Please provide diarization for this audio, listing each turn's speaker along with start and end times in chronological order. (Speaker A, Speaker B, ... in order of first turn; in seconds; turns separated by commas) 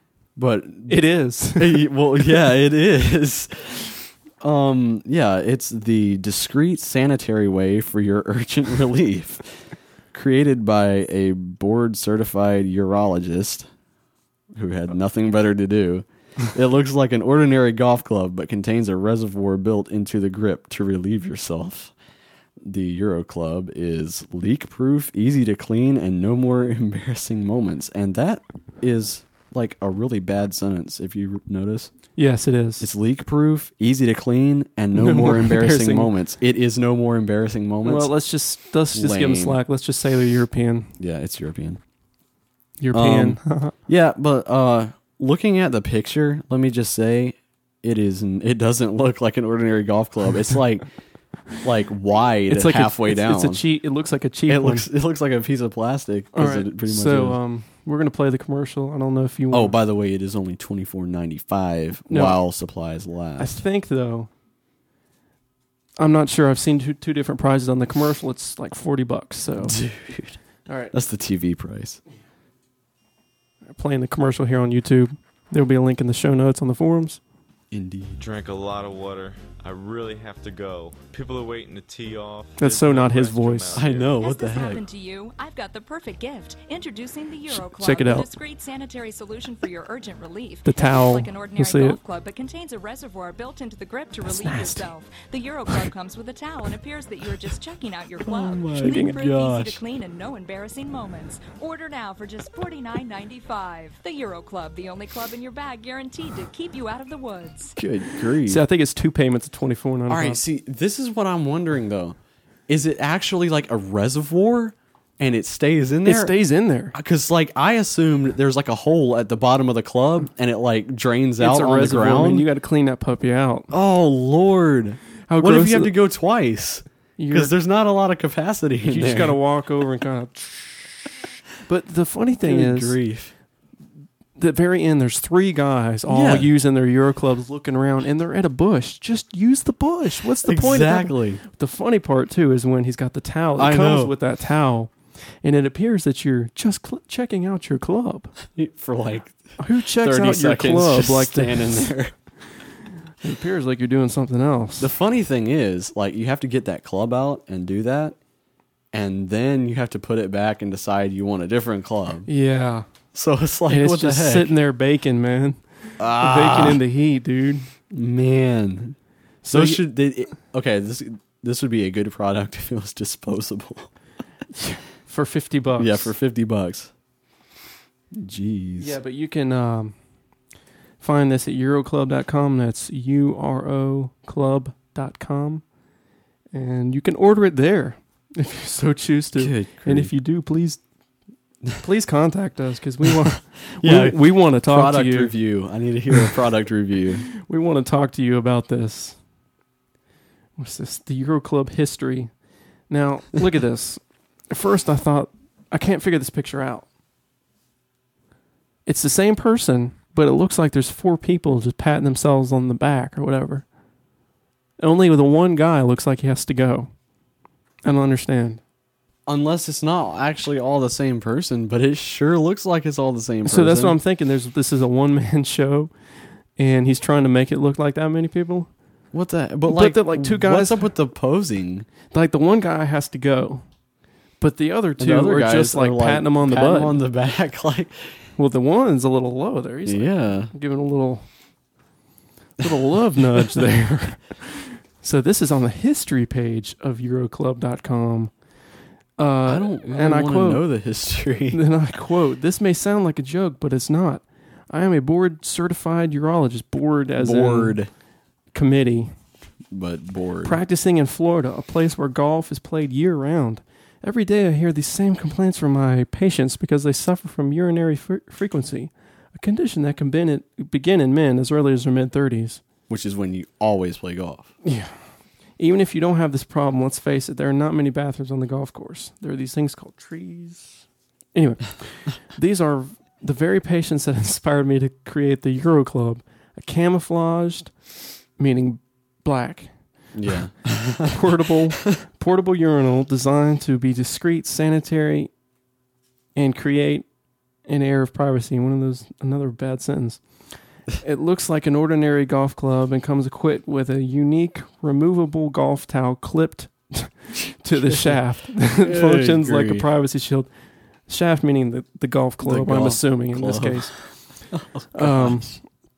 Speaker A: 0.3-1.0, Speaker B: 0.9-1.9, Speaker A: 1.6-13.7, Speaker A: 14.5-21.9, Speaker A: 22.6-31.9, Speaker B: 32.1-32.9, Speaker A: 32.8-38.1, Speaker B: 34.9-36.1, Speaker B: 37.8-40.9, Speaker A: 38.9-39.6, Speaker A: 41.0-41.8, Speaker B: 42.8-43.7, Speaker A: 42.9-50.9, Speaker A: 51.6-53.6, Speaker B: 52.5-54.9, Speaker A: 54.5-57.4, Speaker B: 56.3-59.7, Speaker A: 59.5-63.6, Speaker B: 62.1-62.4, Speaker B: 63.4-64.3, Speaker B: 66.0-69.7, Speaker A: 69.6-70.4, Speaker B: 70.7-70.9, Speaker A: 70.9-72.0, Speaker B: 73.7-77.2, Speaker A: 77.7-78.2, Speaker C: 78.2-84.2, Speaker B: 82.6-83.8, Speaker A: 83.7-84.8, Speaker D: 84.1-107.8, Speaker B: 87.7-88.3, Speaker B: 90.6-92.0, Speaker B: 94.4-94.8, Speaker A: 98.2-99.8, Speaker B: 98.8-99.2, Speaker A: 107.8-108.6, Speaker B: 108.5-110.4, Speaker A: 110.1-112.2, Speaker A: 112.7-116.3, Speaker B: 116.0-116.9, Speaker A: 116.9-122.5, Speaker B: 121.4-123.7, Speaker A: 123.7-129.4, Speaker B: 125.3-126.0, Speaker B: 127.2-127.5, Speaker B: 128.8-130.4, Speaker B: 131.7-133.0, Speaker A: 132.4-133.3, Speaker B: 134.4-148.3, Speaker A: 136.1-136.5, Speaker A: 140.4-141.4, Speaker A: 143.6-144.1, Speaker A: 148.5-149.4, Speaker B: 149.6-151.9, Speaker A: 149.9-152.1, Speaker B: 153.2-154.9, Speaker A: 154.8-158.2, Speaker A: 158.9-162.3, Speaker B: 162.3-162.8, Speaker A: 163.1-164.5, Speaker B: 163.7-167.7, Speaker A: 166.0-166.8, Speaker A: 167.9-169.0, Speaker B: 169.4-169.8, Speaker A: 169.5-173.9, Speaker B: 174.6-176.1, Speaker A: 175.8-176.9, Speaker A: 178.1-179.0, Speaker B: 178.8-179.9, Speaker B: 181.0-185.6, Speaker B: 186.5-190.8, Speaker A: 189.3-190.1, Speaker B: 191.8-195.3, Speaker A: 193.8-197.2, Speaker B: 197.4-199.2, Speaker B: 200.6-202.3, Speaker B: 202.9-206.9, Speaker B: 208.8-213.6, Speaker B: 214.8-216.9, Speaker B: 217.8-218.6, Speaker A: 219.2-224.0, Speaker B: 223.4-225.9, Speaker B: 226.6-228.7, Speaker A: 229.1-231.9, Speaker B: 229.6-230.9, Speaker B: 232.1-233.6, Speaker B: 234.4-237.0, Speaker A: 235.0-238.2, Speaker B: 238.4-241.2, Speaker A: 239.8-240.5, Speaker B: 242.6-248.3, Speaker A: 243.3-243.6, Speaker B: 249.2-250.7, Speaker A: 249.4-251.6, Speaker B: 251.5-257.8, Speaker A: 257.1-257.9, Speaker B: 258.5-259.1, Speaker A: 259.7-260.6, Speaker B: 260.4-272.6, Speaker A: 272.9-274.5, Speaker B: 274.6-274.9, Speaker B: 275.6-280.8, Speaker B: 281.3-287.7, Speaker B: 288.4-289.7, Speaker A: 290.1-291.2, Speaker B: 291.1-295.3, Speaker B: 296.3-297.1, Speaker B: 297.6-300.2, Speaker B: 301.0-310.5, Speaker A: 307.3-309.9, Speaker B: 311.1-313.9, Speaker A: 312.4-315.6, Speaker B: 314.9-315.6